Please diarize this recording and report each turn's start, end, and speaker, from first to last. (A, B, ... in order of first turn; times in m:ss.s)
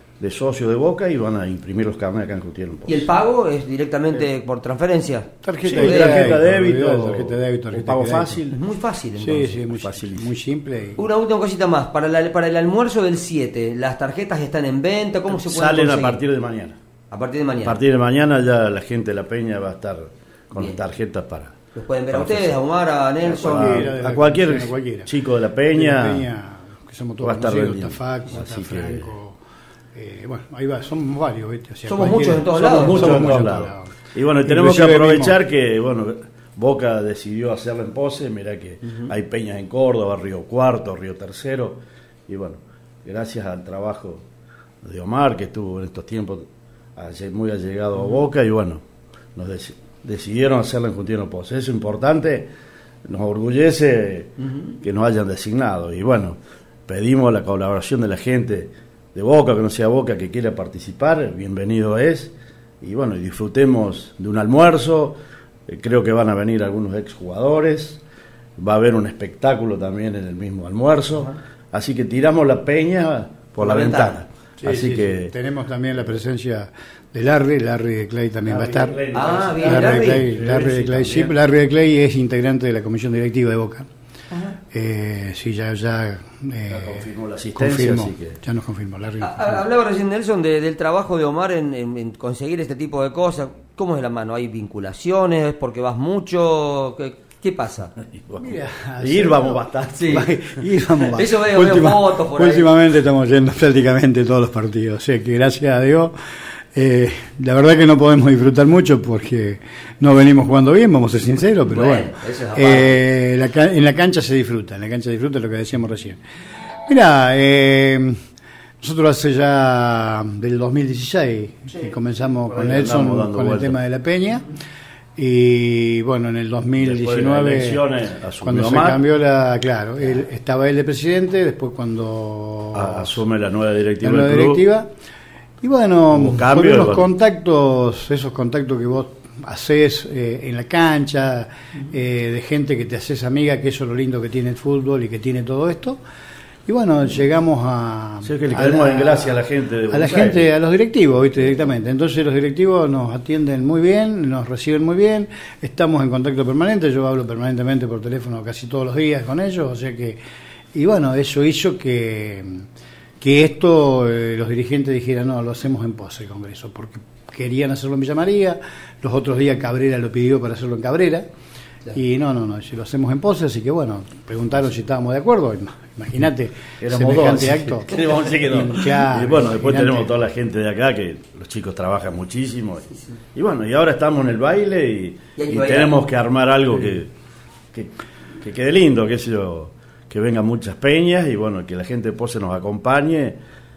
0:00.2-0:03.1 A
0:02.9-0:06.3 B
0:05.4-0:08.4 C
0:05.6-0:08.6 A
0:08.5-0:09.6 B
0:09.2-0:11.0 C
0:09.6-0:10.3 A
0:11.0-0:16.2 B
0:15.3-0:16.8 A
0:17.1-0:17.8 B
0:17.6-0:21.6 A
0:21.7-0:23.9 B
0:22.1-0:22.6 A
0:23.2-0:26.3 A
0:23.4-0:25.1 C
0:25.7-0:29.4 C
0:27.2-0:29.1 A
0:29.9-0:35.4 C
0:31.9-0:33.3 B
0:32.5-0:44.2 A
0:44.8-0:48.8 A
0:49.4-0:52.5 A
0:53.0-1:05.2 A
1:05.7-1:08.0 A
1:08.6-1:15.3 A
1:13.6-1:14.2 B
1:14.6-1:19.0 C
1:18.4-1:21.4 A
1:19.1-1:20.3 B
1:19.6-1:23.8 C
1:24.3-1:24.6 B
1:24.7-1:29.6 C
1:26.7-1:28.4 A
1:29.2-1:37.9 B
1:38.1-1:40.6 A
1:38.4-1:46.1 C
1:39.9-1:40.3 B
1:41.1-1:42.7 B
1:46.7-1:56.2 C
1:51.7-1:53.0 B
1:56.8-1:58.2 C
1:58.8-2:04.4 C
2:02.4-2:03.8 A
2:05.2-2:07.8 C
2:06.8-2:09.0 A
2:08.4-2:13.2 C
2:12.7-2:14.6 A
2:14.0-2:14.9 C
2:15.6-2:26.0 C
2:16.1-2:17.1 A
2:26.7-2:40.2 C
2:28.2-2:30.5 A
2:40.7-2:42.6 C
2:43.2-2:51.3 C
2:51.9-3:00.1 C
2:56.8-3:07.1 A
3:05.4-3:05.9 B
3:07.7-3:13.4 A